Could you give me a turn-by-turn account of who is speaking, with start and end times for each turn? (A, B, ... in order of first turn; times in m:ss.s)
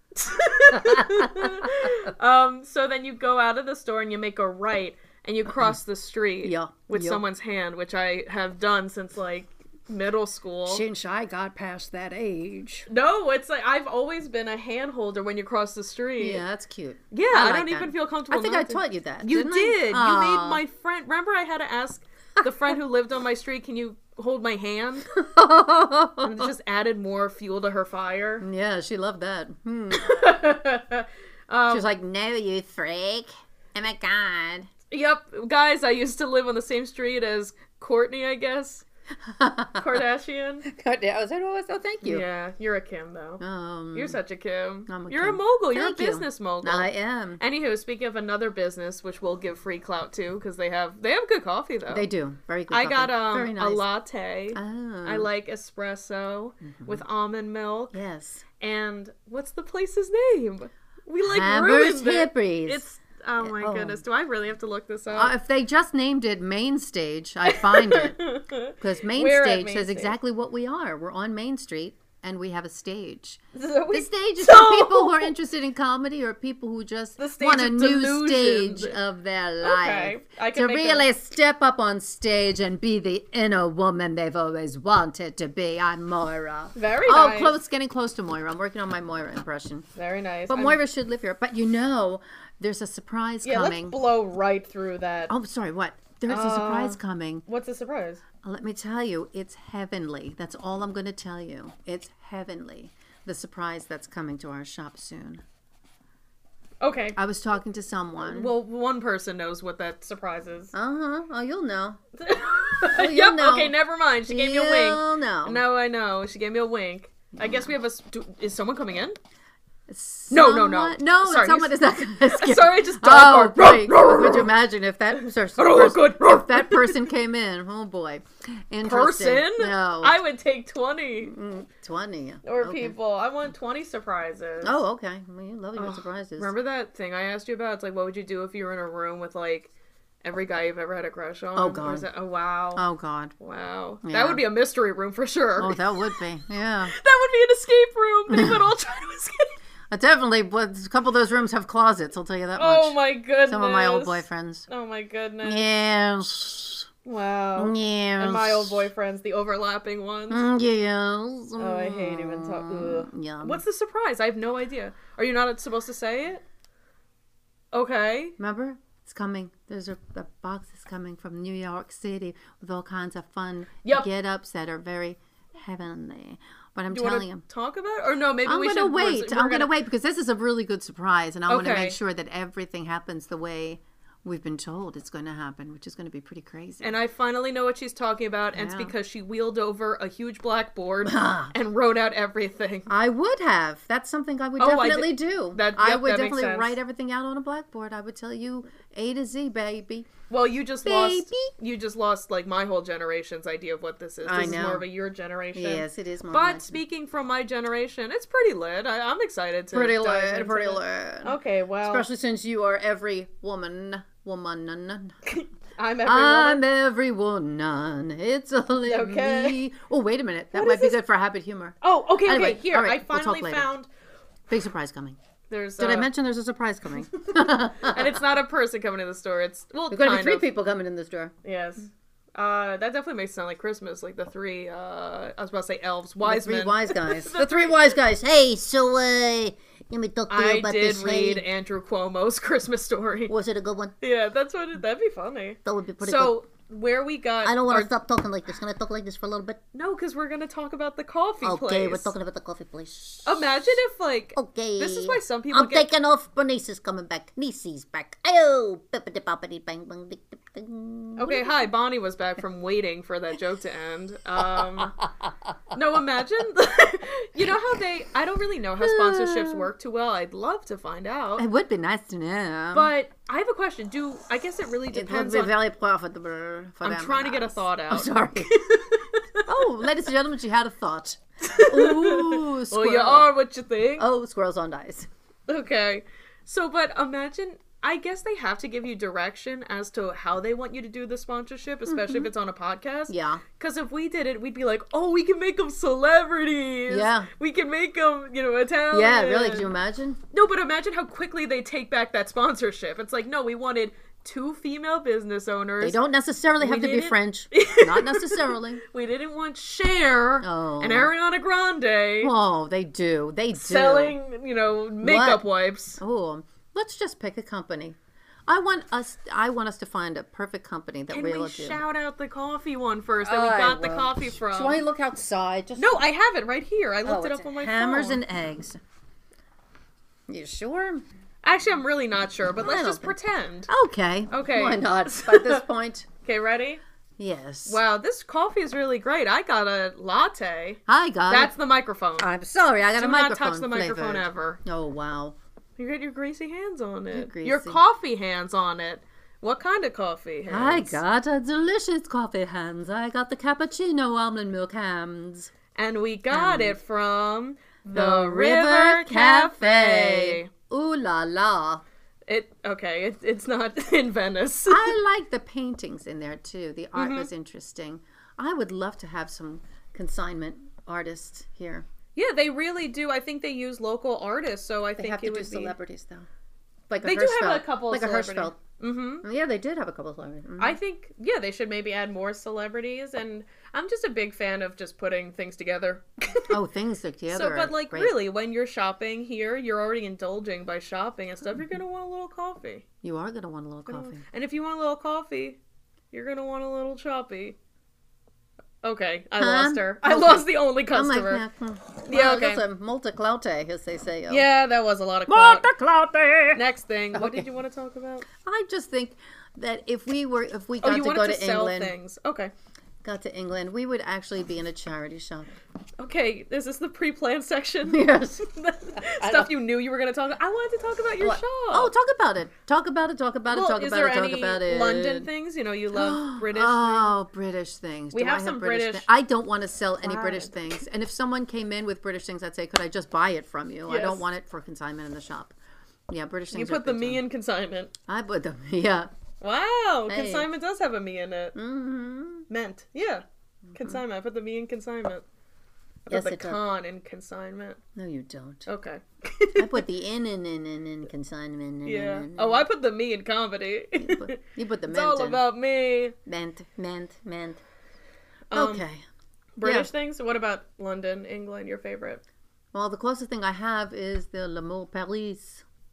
0:00.2-0:10.8 A
0:00.7-0:02.1 B
0:06.4-0:07.2 B
0:10.7-0:12.9 B
0:12.9-0:16.4 A
0:16.2-0:20.6 B
0:17.1-0:25.1 A
0:25.1-0:26.5 B
0:26.2-0:28.4 A
0:28.4-0:30.2 B
0:29.9-0:31.9 A
0:31.7-0:34.7 B
0:34.9-0:38.8 A
0:39.2-0:39.8 B
0:39.8-0:40.6 A
0:40.6-0:42.2 B
0:42.0-0:43.4 A
0:43.4-0:44.2 B
0:43.9-0:52.1 A
0:44.9-0:47.4 B
0:51.9-0:53.8 B
0:52.7-0:58.0 A
0:54.5-0:55.3 B
0:56.6-0:57.0 B
0:57.9-0:58.4 B
0:58.6-1:05.3 A
1:01.2-1:02.8 B
1:03.4-1:04.0 B
1:05.1-1:08.2 B
1:07.5-1:10.2 A
1:08.8-1:29.8 B
1:13.5-1:15.3 A
1:17.2-1:19.0 A
1:19.6-1:21.0 A
1:26.7-1:27.6 A
1:29.9-1:30.8 A
1:30.5-1:34.0 B
1:33.4-1:35.3 A
1:35.3-1:37.4 B
1:36.3-1:38.2 A
1:38.4-1:45.4 B
1:46.8-1:47.2 A
1:47.1-1:48.5 B
1:48.2-1:50.7 A
1:50.7-1:52.0 B
1:52.2-1:59.2 A
1:52.5-1:55.6 B
1:59.9-2:10.2 B
2:00.3-2:04.5 A
2:05.2-2:07.1 A
2:08.8-2:11.3 A
2:11.2-2:12.9 B
2:12.4-2:14.8 A
2:14.6-2:16.5 B
2:15.8-2:19.7 A
2:20.2-2:22.8 A
2:21.5-2:22.1 B
2:22.8-2:23.3 B
2:23.4-2:26.1 A
2:24.0-2:24.4 B
2:25.6-2:26.9 B
2:26.8-2:29.5 A
2:28.3-2:28.7 B
2:29.9-2:34.6 B
2:32.6-2:35.7 A
2:35.4-2:36.9 B
2:37.0-2:40.4 A
2:37.6-2:38.8 B
2:40.3-2:43.6 B
2:41.6-2:46.4 A
2:47.7-2:48.3 A
2:48.4-2:57.4 B
2:56.9-2:59.7 A
2:58.4-3:07.0 B
3:01.5-3:02.0 A
3:06.8-3:12.9 A
3:08.5-3:08.9 B
3:11.0-3:11.5 B
3:12.9-3:20.1 B
3:14.6-3:16.8 A
3:20.3-3:32.1 A
3:20.8-3:21.5 B
3:24.2-3:24.9 B
3:25.5-3:26.8 B
3:29.7-3:35.2 B
3:35.3-3:36.6 A
3:36.0-3:43.7 B
3:38.8-3:39.6 A
3:40.5-3:41.0 A
3:41.8-3:43.9 A
3:44.5-3:45.2 B
3:45.5-3:46.1 A
3:45.8-3:48.2 B
3:47.8-3:50.5 A
3:49.9-3:51.3 B
3:51.4-3:58.0 A
3:56.2-4:01.4 B
4:00.3-4:03.3 A
4:03.3-4:03.9 B
4:04.0-4:07.9 A
4:05.6-4:06.4 B
4:07.4-4:09.6 B
4:09.7-4:12.1 A
4:11.4-4:13.5 B
4:13.2-4:15.9 A
4:14.3-4:21.7 B
4:21.2-4:25.0 A
4:24.4-4:25.5 B
4:25.7-4:31.5 A
4:28.8-4:29.7 B
4:31.4-4:32.9 B
4:32.7-4:35.6 A
4:34.9-4:38.5 B
4:36.8-4:39.5 A
4:39.4-4:43.3 B
4:41.4-4:44.0 A
4:44.0-4:45.1 B
4:45.5-4:59.7 A
4:51.9-4:52.3 B
4:53.1-4:53.4 B
4:56.9-4:57.3 B
4:58.9-5:00.2 B
5:00.3-5:06.0 A
5:05.8-5:08.8 B
5:06.6-5:12.3 A
5:10.4-5:11.1 B
5:12.2-5:14.2 B
5:13.5-5:16.0 A
5:15.0-5:15.4 B
5:16.0-5:21.8 B
5:21.1-5:24.8 A
5:23.2-5:26.0 B
5:25.8-5:28.2 A
5:27.0-5:28.8 B
5:30.3-5:31.0 B
5:31.4-5:33.7 A
5:32.6-5:33.2 B
5:33.7-5:36.1 B
5:34.3-5:35.6 A
5:36.2-5:36.8 A
5:37.2-5:37.8 B
5:37.6-5:42.3 A
5:40.9-5:41.5 B
5:42.2-5:45.4 B
5:43.0-5:44.6 A
5:45.8-5:51.0 A
5:47.1-5:47.8 B
5:50.5-5:55.5 B
5:55.8-6:00.5 A
5:56.3-5:56.8 B
5:57.9-6:01.8 B
6:02.3-6:05.0 A
6:04.7-6:11.8 B
6:06.9-6:07.3 A
6:12.1-6:15.7 A
6:15.0-6:16.3 B
6:16.9-6:18.6 B
6:17.0-6:19.2 A
6:19.2-6:20.8 B
6:20.6-6:26.6 A
6:26.5-6:28.1 B
6:27.3-6:32.8 A
6:33.0-6:34.2 B
6:33.9-6:35.6 A
6:36.1-6:37.6 A
6:38.8-6:41.4 A
6:39.4-6:44.5 B
6:42.1-6:42.6 A
6:44.3-6:45.7 A
6:45.3-6:47.5 B
6:46.5-6:48.2 A
6:48.4-6:51.9 B
6:50.8-6:52.5 A
6:53.0-6:55.5 B
6:56.0-7:01.9 A
6:57.8-6:59.5 B
7:01.2-7:05.3 B
7:03.5-7:07.2 A
7:05.9-7:15.5 B
7:08.1-7:09.0 A
7:10.0-7:10.8 A
7:13.9-7:14.2 A
7:16.1-7:17.2 B
7:16.5-7:17.9 A
7:18.1-7:19.1 B
7:19.4-7:21.6 A
7:20.1-7:20.5 B
7:21.5-7:22.4 B
7:22.5-7:23.2 A
7:23.7-7:24.0 B
7:23.7-7:25.2 A
7:26.1-7:27.8 A
7:26.1-7:26.6 B
7:27.9-7:28.7 B
7:28.6-7:29.8 A
7:29.6-7:32.6 B
7:31.8-7:36.1 A
7:34.0-7:35.4 B
7:36.2-7:37.6 B
7:38.5-7:38.8 A
7:38.5-7:39.0 B
7:39.6-7:42.2 A
7:39.6-7:39.9 B
7:42.7-7:45.6 B